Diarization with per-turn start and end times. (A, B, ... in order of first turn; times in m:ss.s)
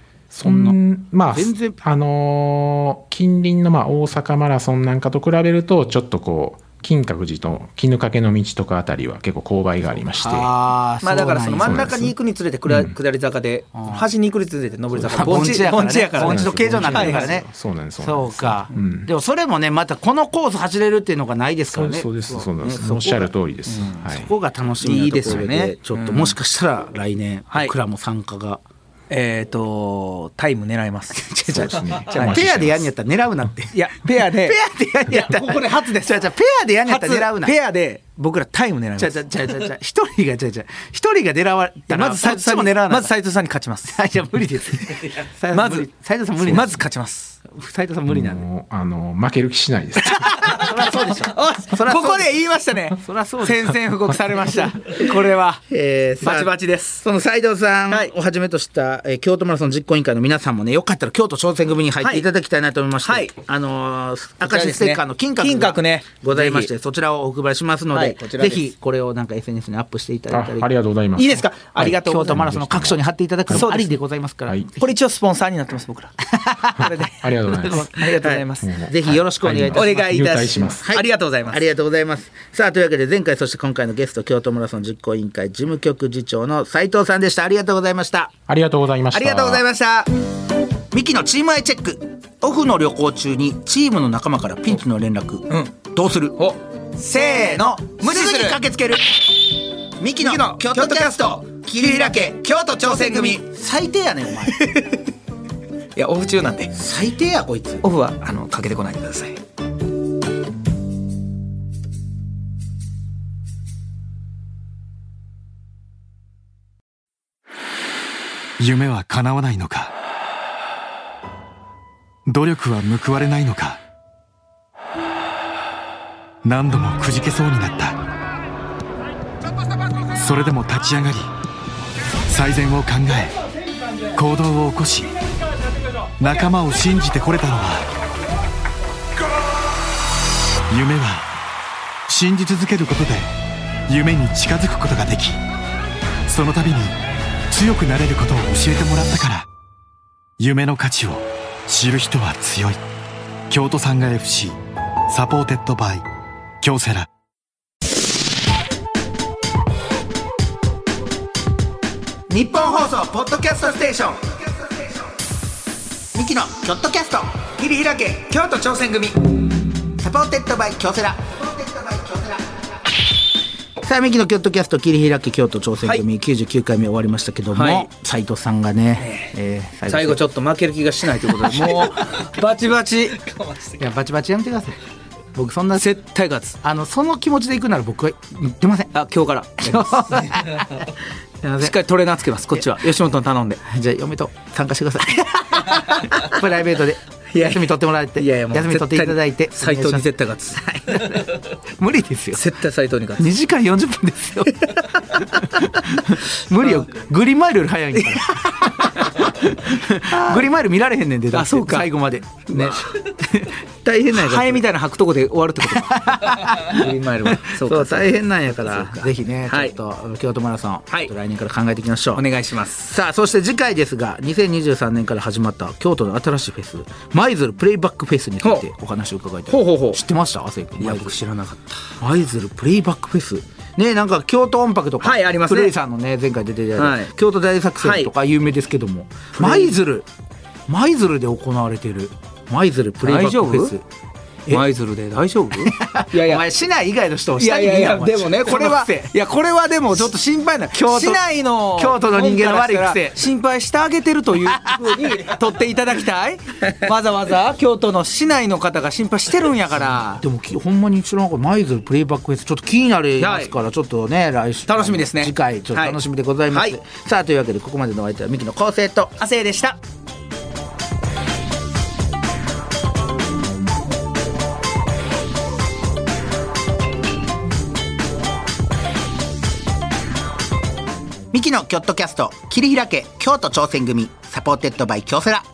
0:00.3-0:10.5 A
0:00.4-0:00.8 B
0:01.3-0:01.8 B
0:10.1-0:12.1 B
0:11.0-0:17.3 C
0:11.6-0:12.1 A
0:12.7-0:13.0 A
0:13.8-0:14.0 B
0:14.9-0:19.1 A
0:15.1-0:17.5 B
0:18.0-0:23.3 B
0:21.7-0:24.3 A
0:23.7-0:24.0 C
0:24.0-0:28.6 B
0:24.8-0:26.4 C
0:29.1-0:32.5 C
0:31.1-0:37.5 B
0:31.5-0:32.9 A
0:33.7-0:34.6 C
0:35.1-0:36.3 C
0:36.9-0:39.7 C
0:39.0-0:43.1 B
0:41.9-0:44.0 C
0:43.9-0:46.8 B
0:45.5-0:45.9 C
0:46.4-0:47.4 C
0:47.5-0:48.5 B
0:48.1-0:50.3 A
0:50.2-0:52.3 B
0:50.4-0:55.6 C
0:53.0-0:55.1 B
0:55.7-1:10.7 B
0:56.2-0:57.0 C
1:03.0-1:03.3 C
1:04.4-1:06.7 C
1:07.9-1:08.7 C
1:10.3-1:13.7 A
1:11.2-1:12.4 C
1:11.8-1:14.9 B
1:13.5-1:14.0 C
1:14.8-1:16.2 C
1:16.3-1:28.3 B
1:16.8-1:17.2 C
1:17.1-1:17.9 A
1:17.9-1:18.7 C
1:18.6-1:20.8 A
1:19.7-1:21.6 C
1:28.5-1:29.6 A
1:29.1-1:30.1 C
1:30.9-1:36.4 B
1:36.4-1:38.7 C
1:37.1-1:39.0 B
1:40.0-1:44.7 B
1:40.2-1:43.4 C
1:44.5-1:45.0 C
1:46.0-1:46.7 C
1:46.7-1:47.8 B
1:47.8-1:49.4 C
1:58.6-1:59.9 D
2:02.3-2:03.8 D
2:06.4-2:08.0 D
2:10.1-2:11.3 D
2:12.3-2:13.4 D
2:14.1-2:15.2 D
2:16.2-2:17.9 D
2:20.7-2:21.3 D
2:22.1-2:25.4 D
2:26.3-2:27.0 D
2:27.5-2:29.5 D
2:30.4-2:32.8 D
2:33.5-2:36.1 D
2:36.6-2:37.1 D
2:42.3-2:44.3 B
2:46.1-2:47.4 B
2:47.6-2:49.2 C
2:50.0-2:52.4 B
2:53.8-3:00.2 B
2:57.5-2:57.9 C
2:59.0-2:59.3 C
2:59.9-3:03.8 C
3:03.8-3:04.8 B
3:05.4-3:06.0 B
3:05.8-3:06.6 C
3:06.6-3:08.9 B
3:08.9-3:10.9 C
3:09.6-3:10.8 B
3:11.4-3:13.6 C
3:13.6-3:22.4 B
3:15.7-3:16.3 C
3:17.3-3:21.3 C
3:22.4-3:23.4 C
3:23.2-3:34.6 B
3:24.7-3:25.4 C
3:26.6-3:26.9 C
3:28.0-3:29.3 C
3:30.0-3:30.5 C
3:31.3-3:31.9 C
3:32.5-3:33.1 C
3:34.1-3:39.8 C
3:35.9-3:42.2 B
3:42.2-3:42.8 C
3:42.8-3:51.1 B
3:49.5-3:50.0 C
3:50.8-3:51.9 C
3:52.0-4:00.1 B
3:55.0-3:55.7 C
3:56.8-3:57.1 C
3:57.8-3:58.1 C
3:59.4-3:59.7 C
4:00.7-4:03.8 B
4:03.0-4:03.7 C
4:04.5-4:06.4 C
4:05.7-4:09.1 B
4:07.4-4:20.2 C
4:10.7-4:11.2 B
4:11.8-4:13.2 B
4:14.6-4:15.3 B
4:20.2-4:29.1 B
4:23.2-4:23.5 C
4:24.7-4:26.0 C
4:26.5-4:26.8 C
4:29.2-4:29.8 C
4:41.3-4:45.5 B